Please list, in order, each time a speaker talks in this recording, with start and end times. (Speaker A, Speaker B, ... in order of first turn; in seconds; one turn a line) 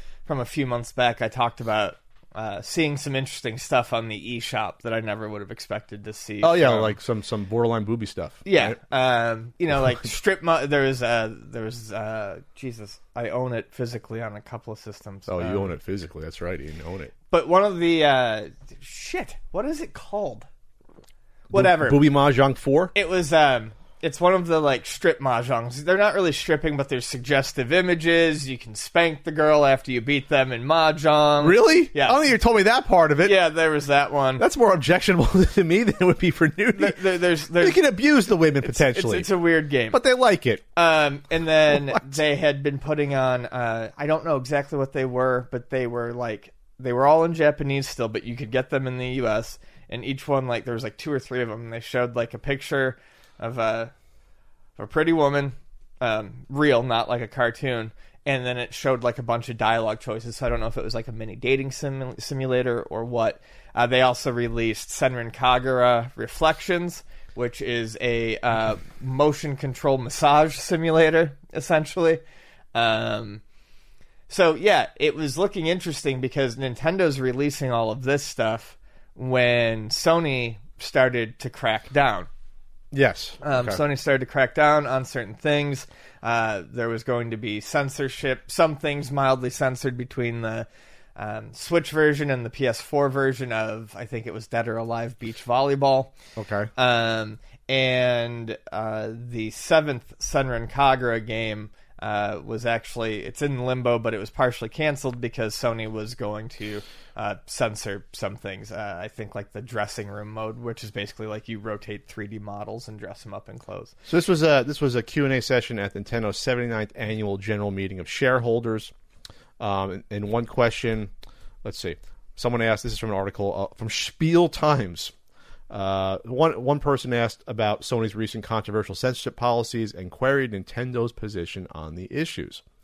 Speaker A: 0.3-7.0
Speaker B: 6.4-8.8
Speaker A: 8.4-15.8
Speaker B: 15.3-17.1
Speaker A: 17.3-20.5
Speaker A: 21.5-22.0
Speaker B: 21.5-22.9
Speaker A: 22.9-32.2
Speaker B: 31.4-33.4
Speaker A: 33.2-34.4
Speaker B: 34.4-37.0
Speaker A: 36.7-37.8
Speaker B: 37.6-39.3
Speaker A: 38.6-40.0
Speaker B: 39.9-40.6
Speaker A: 40.8-53.9
Speaker B: 41.7-42.1
Speaker A: 54.8-72.2
Speaker A: 72.7-73.4
Speaker A: 74.3-82.3
Speaker B: 82.9-83.8
Speaker A: 83.4-96.1
Speaker B: 96.4-96.7
Speaker A: 96.8-113.9
Speaker B: 114.1-118.9
Speaker B: 119.6-121.1
Speaker B: 121.6-125.1
Speaker B: 125.7-132.6